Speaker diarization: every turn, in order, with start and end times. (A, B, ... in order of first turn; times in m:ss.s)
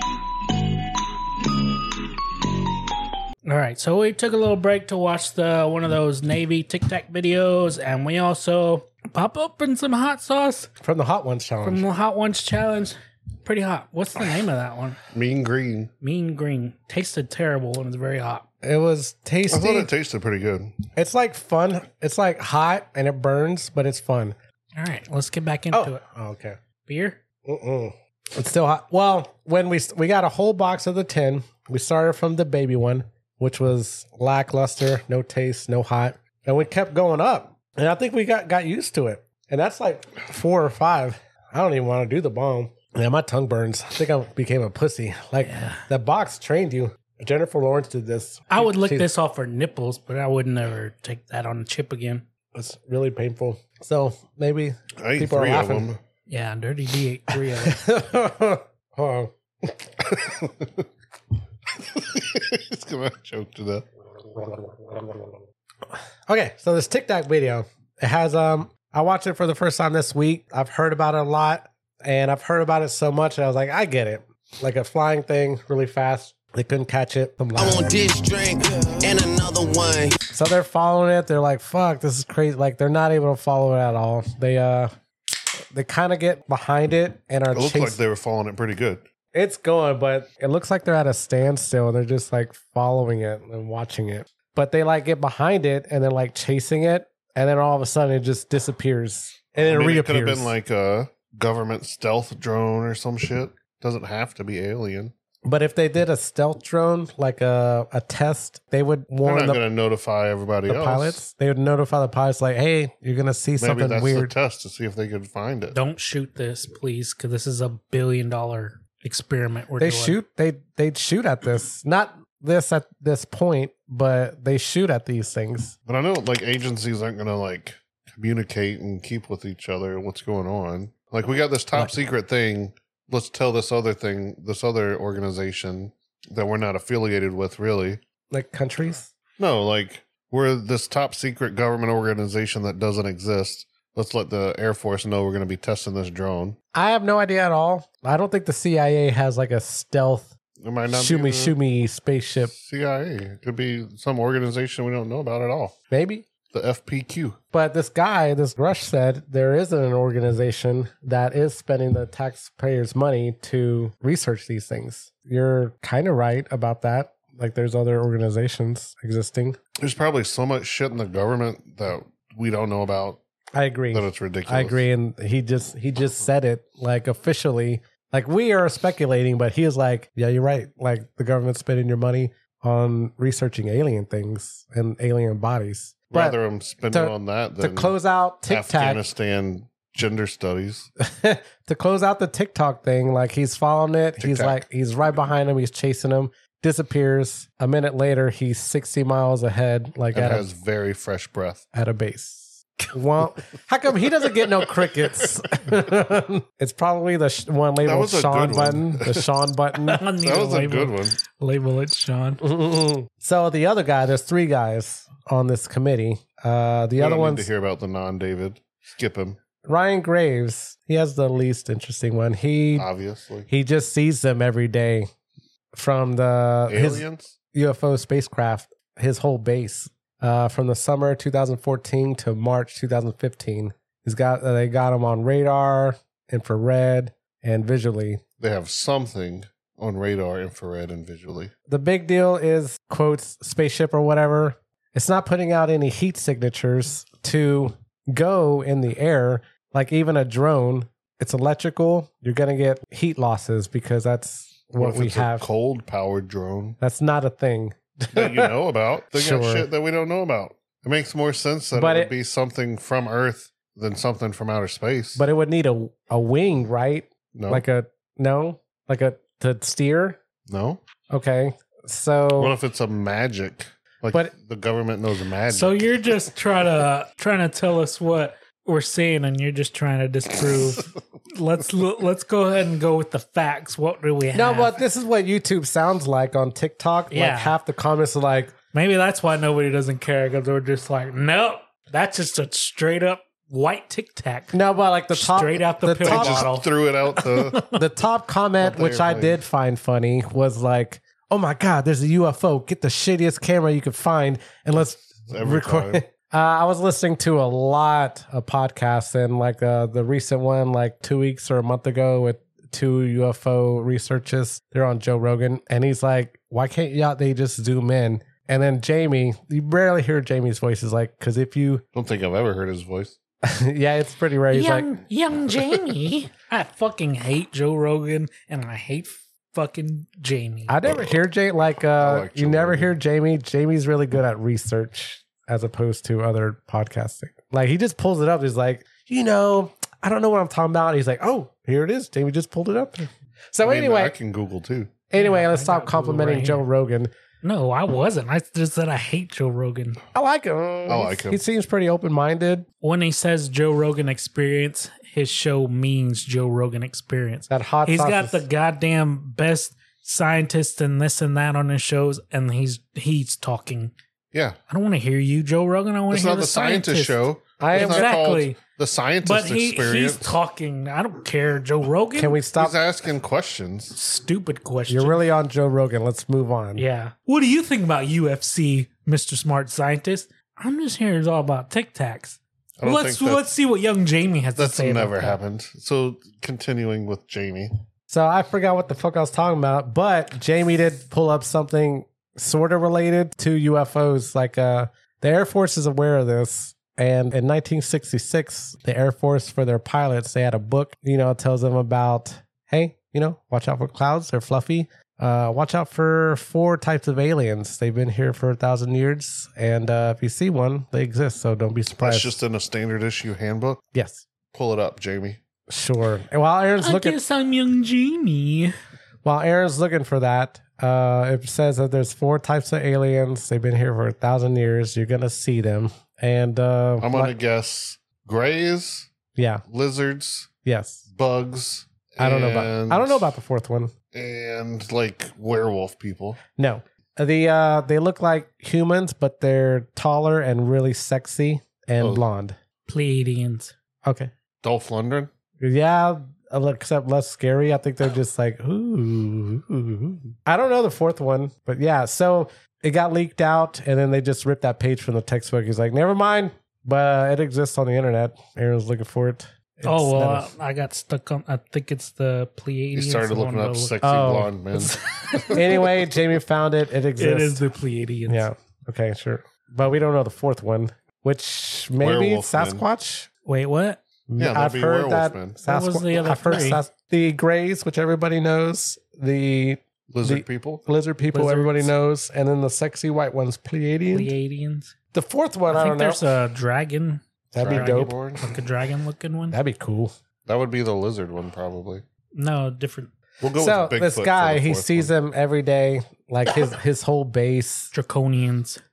0:03.4-0:10.7 A
0:10.8-0:11.8 B
0:11.6-0:15.0 A
0:15.1-0:15.9 C
0:16.0-0:18.4 A
0:18.6-0:19.9 B
0:19.5-0:20.8 C
0:21.0-0:24.4 B
0:24.8-0:26.0 A
0:25.7-0:26.6 B
0:26.9-0:27.2 A
0:27.4-0:49.1 B
0:45.4-0:45.8 A
0:48.5-0:52.3 A
0:52.5-0:55.9 B
0:55.0-0:56.0 C
0:56.3-0:57.8 A
0:57.6-1:00.2 B
1:00.2-1:00.7 C
1:01.9-1:03.8 C
1:04.2-1:18.0 B
1:17.6-1:20.1 D
1:20.3-1:24.9 B
1:25.7-1:28.0 B
1:27.5-1:29.0 C
1:29.3-1:40.5 B
1:39.6-1:45.1 C
1:45.4-1:49.6 B
1:49.2-1:51.2 C
1:50.7-1:54.3 B
1:53.6-1:55.8 C
1:55.7-2:00.2 A
1:59.8-2:05.8 B
2:05.9-2:18.0 C
2:18.3-2:19.1 B
2:19.4-2:26.6 C
2:26.7-2:30.4 B
2:30.6-2:31.6 C
2:30.9-2:32.5 B
2:32.5-2:35.8 C
2:35.9-2:36.3 B
2:36.5-2:37.4 C
2:37.5-2:49.6 B
2:49.8-2:53.2 C
2:53.5-3:06.4 B
2:53.9-2:54.8 C
3:06.1-3:08.0 C
3:06.9-3:09.0 B
3:08.5-3:10.9 C
3:11.0-3:20.5 B
3:14.2-3:14.6 C
3:20.1-3:21.6 C
3:21.7-3:30.0 B
3:27.8-3:29.2 C
3:29.9-3:32.4 A
3:30.2-3:31.2 C
3:32.4-3:37.5 B
3:37.0-3:39.4 C
3:39.6-3:42.9 B
3:42.8-3:43.5 C
3:43.5-3:45.1 B
3:45.7-3:58.2 B
3:46.7-3:47.4 C
3:58.4-4:01.5 C
4:01.7-4:15.5 B
4:14.8-4:16.8 C
4:16.8-4:18.5 B
4:18.1-4:25.2 C
4:19.1-4:19.7 B
4:21.7-4:22.1 B
4:25.2-4:30.2 B
4:27.3-4:27.6 C
4:30.5-4:30.8 C
4:31.1-4:32.5 B
4:32.4-4:35.9 C
4:35.5-4:44.8 A
4:44.3-4:48.5 B
4:47.1-4:47.6 A
4:48.7-4:54.6 A
4:54.5-4:56.5 B
4:55.1-4:57.8 A
4:56.0-4:57.6 C
4:57.7-5:21.8 B
4:58.6-4:59.4 C
5:05.3-5:06.0 C
5:21.9-5:23.2 C
5:23.4-5:24.9 B
5:24.5-5:30.8 A
5:30.7-5:44.1 B
5:32.0-5:32.9 C
5:43.6-5:44.9 C
5:45.1-5:47.1 B
5:45.2-5:46.6 A
5:47.4-5:50.0 A
5:50.1-5:52.7 B
5:50.9-5:51.4 C
5:52.8-6:03.9 A
5:57.5-5:58.4 B
6:04.7-6:08.6 A
6:06.1-6:10.4 C
6:07.6-6:08.1 B
6:09.2-6:12.4 A
6:12.2-6:12.8 B
6:12.6-6:14.0 C
6:13.9-6:15.3 A
6:14.9-6:16.8 B
6:16.8-6:25.4 A
6:22.8-6:23.4 C
6:24.6-6:27.7 C
6:28.1-6:52.4 B
6:52.0-6:53.8 C
6:53.9-6:54.2 B
6:54.5-6:55.4 C
6:55.7-6:57.2 B
6:56.8-6:58.8 A
6:59.2-7:07.3 B
7:07.0-7:09.1 C
7:09.4-7:09.6 B
7:09.7-7:10.5 C
7:10.7-7:11.0 B
7:11.1-7:13.4 C
7:12.2-7:13.9 B
7:14.1-7:16.4 C
7:16.6-7:22.6 B
7:22.0-7:22.2 C
7:22.9-7:23.7 A
7:24.0-7:24.3 B
7:24.6-7:25.3 C
7:25.6-7:40.5 B
7:39.8-7:44.0 A
7:42.9-7:45.6 C
7:44.0-7:44.6 B
7:44.8-7:45.8 A
7:45.5-7:47.6 B
7:47.2-7:48.5 A
7:48.3-7:53.3 B
7:52.0-7:52.8 C
7:53.5-7:54.0 A
7:54.3-8:04.3 B
7:54.4-7:55.6 C
7:55.7-7:56.8 A
8:00.1-8:00.8 C
8:01.3-8:01.9 A
8:04.1-8:04.9 A
8:05.1-8:06.4 B
8:05.7-8:09.6 A
8:07.5-8:08.2 B
8:07.6-8:08.6 C
8:09.5-8:10.1 B
8:10.5-8:12.0 C
8:12.4-8:13.1 A
8:13.4-8:15.1 C
8:13.6-8:17.9 B
8:17.9-8:18.8 A